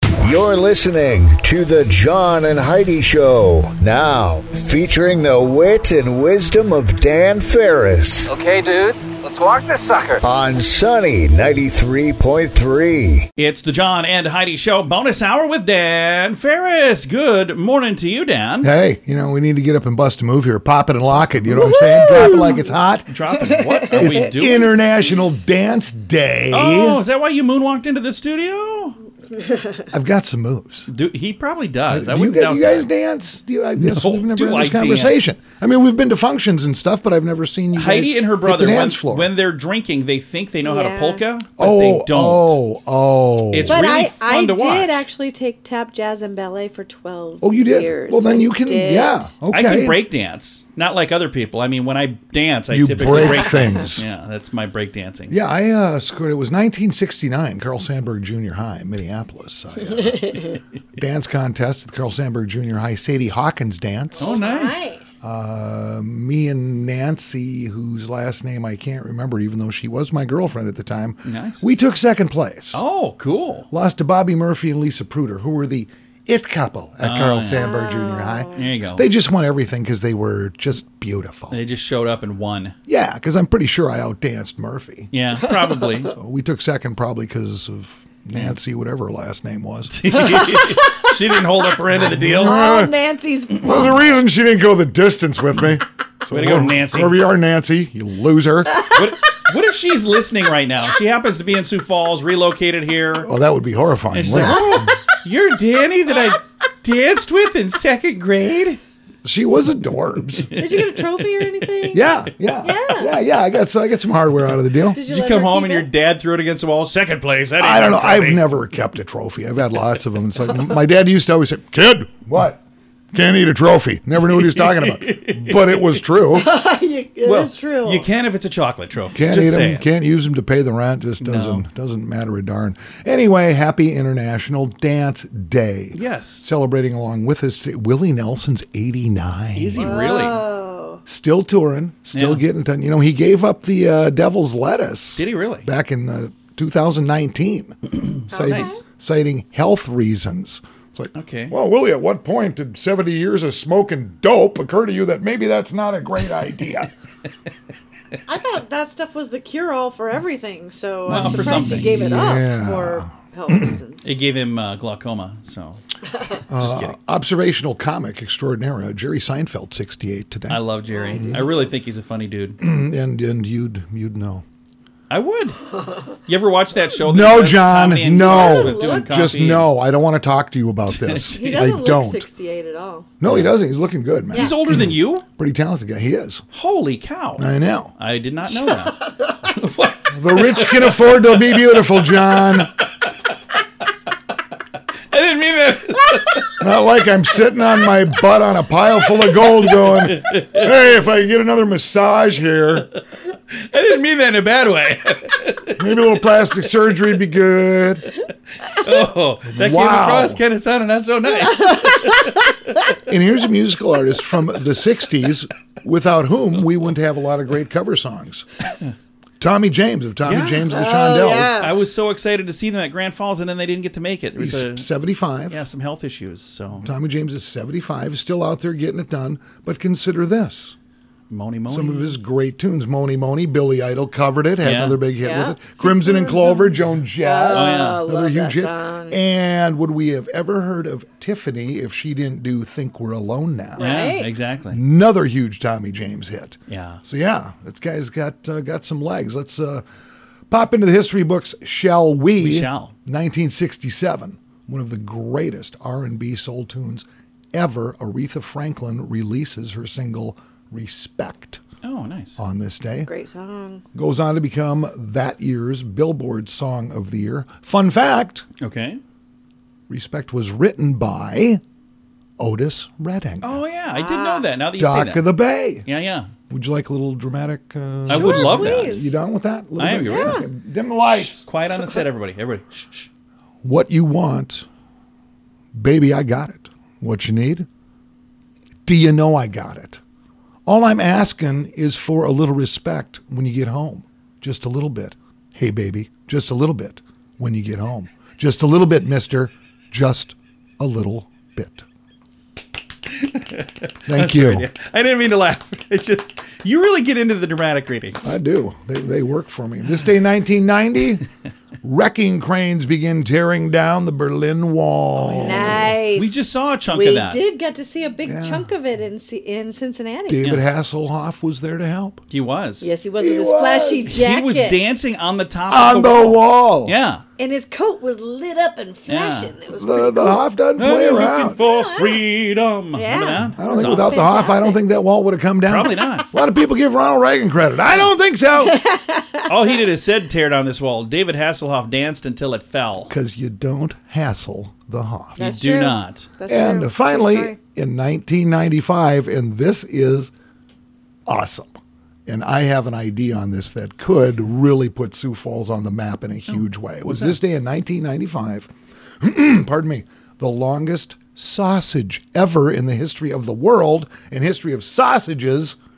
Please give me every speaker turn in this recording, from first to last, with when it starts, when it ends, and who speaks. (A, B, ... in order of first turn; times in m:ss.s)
0:00.2-0:08.3 A
0:08.3-0:10.2 B
0:10.2-0:13.3 A
0:13.4-0:18.7 C
0:18.6-0:23.1 D
0:21.7-0:22.6 E
0:23.1-0:24.7 C
0:23.4-0:24.3 E
0:23.9-0:27.0 D
0:26.5-0:29.0 C
0:29.9-0:30.9 D
0:30.9-0:32.9 C
0:31.9-0:39.3 D
0:33.8-0:35.2 C
0:37.7-0:42.6 C
0:40.6-0:41.2 E
0:41.6-0:43.9 D
0:43.5-0:45.1 C
0:43.6-0:49.3 E
0:47.4-0:50.0 D
0:49.5-0:55.4 C
0:52.7-0:54.1 D
0:55.3-1:04.4 D
1:04.2-1:04.9 C
1:04.2-1:05.0 E
1:05.2-1:12.8 D
1:11.2-1:11.6 C
1:12.7-1:13.7 C
1:13.7-1:21.6 D
1:17.0-1:17.7 C
1:17.5-1:18.7 E
1:18.5-1:19.1 C
1:21.5-1:22.8 C
1:22.9-1:25.1 D
1:25.1-1:26.2 C
1:26.1-1:30.3 D
1:29.9-1:32.6 C
1:30.3-1:31.1 E
1:32.1-1:32.9 D
1:32.2-1:34.1 E
1:33.5-1:38.9 D
1:36.3-1:37.2 C
1:38.9-1:43.3 C
1:43.2-1:44.8 D
1:44.1-1:48.8 C
1:49.2-1:50.6 D
1:50.6-1:52.1 E
1:51.9-1:55.0 D
1:52.6-1:53.2 E
1:54.9-1:55.9 E
1:55.1-1:58.4 C
1:57.6-2:02.6 D
2:03.1-2:06.5 D
2:04.3-2:06.0 C
2:06.3-2:08.1 E
2:07.2-2:09.9 C
2:09.1-2:20.0 D
2:11.2-2:11.6 C
2:15.9-2:16.4 C
2:19.6-2:20.4 C
2:19.8-2:21.0 E
2:21.1-2:36.9 D
2:22.1-2:22.4 C
2:25.2-2:25.7 C
2:28.3-2:28.8 E
2:28.4-2:28.8 C
2:31.1-2:31.5 C
2:38.3-2:44.0 E
2:41.1-2:42.0 C
2:41.1-2:43.8 D
2:44.0-2:45.8 C
2:46.5-2:51.5 D
2:46.6-2:47.0 C
2:50.5-2:52.6 C
2:50.9-2:51.5 E
2:52.6-2:54.4 D
2:55.1-2:55.6 C
2:56.2-2:59.7 C
2:57.0-3:02.3 D
2:58.2-2:59.1 E
3:00.9-3:01.7 C
3:01.3-3:03.1 E
3:03.2-3:06.4 D
3:03.2-3:03.5 C
3:04.3-3:05.3 C
3:06.5-3:07.4 C
3:07.4-3:07.9 D
3:08.0-3:11.6 C
3:08.5-3:09.3 E
3:10.1-3:12.8 D
3:15.1-3:16.5 C
3:16.6-3:22.9 D
3:19.7-3:20.7 C
3:23.5-3:25.8 C
3:25.8-3:28.1 D
3:28.7-3:32.9 C
3:29.5-3:30.4 D
3:31.5-3:32.3 E
3:33.1-3:38.5 D
3:39.4-3:41.6 D
3:40.2-3:40.7 C
3:40.6-3:41.7 E
3:41.6-3:44.9 C
3:44.4-3:45.6 D
3:45.5-3:46.9 C
3:46.8-3:50.8 D
3:51.3-3:52.2 C
3:51.7-4:03.9 D
3:54.6-3:55.0 C
3:55.2-3:59.2 E
3:57.5-3:58.0 C
4:03.8-4:04.3 E
4:03.8-4:04.8 C
4:04.7-4:09.8 D
4:06.7-4:07.0 C
4:10.5-4:21.6 D
4:12.4-4:12.9 C
4:21.8-4:22.4 C
4:22.4-4:23.1 D
4:23.1-4:23.8 E
4:23.9-4:28.5 D
4:28.6-4:29.0 C
4:29.9-4:31.6 D
4:32.4-4:33.6 D
4:33.4-4:35.3 C
4:34.0-4:34.5 E
4:34.8-4:35.9 D
4:35.9-4:36.3 C
4:36.5-4:41.4 D
4:38.1-4:39.1 C
4:38.1-4:39.2 E
4:39.8-4:40.5 C
4:40.1-4:40.5 E
4:41.0-4:43.1 C
4:43.6-4:44.7 D
4:45.7-4:47.7 D
4:48.9-4:50.0 D
4:50.7-5:01.8 D
5:03.1-5:08.4 C
5:04.1-5:04.7 D
5:08.2-5:11.3 D
5:11.8-5:16.0 D
5:15.2-5:17.4 C
5:15.3-5:20.4 E
5:18.2-5:18.7 D
5:20.3-5:22.2 D
5:22.3-5:22.9 C
5:22.8-5:24.8 E
5:23.2-5:24.1 D
5:24.1-5:27.2 C
5:25.7-5:27.0 D
5:27.4-5:30.4 E
5:29.1-5:29.5 C
5:29.8-5:31.6 D
5:30.8-5:34.3 C
5:31.6-5:32.2 E
5:32.9-5:34.8 E
5:33.6-5:38.8 D
5:35.7-5:36.3 C
5:38.7-5:39.5 E
5:39.5-5:43.1 C
5:43.1-5:45.5 D
5:45.4-5:47.6 E
5:45.4-5:46.3 C
5:46.5-5:50.3 D
5:51.3-5:58.7 D
5:56.5-5:57.4 C
5:59.2-6:05.8 D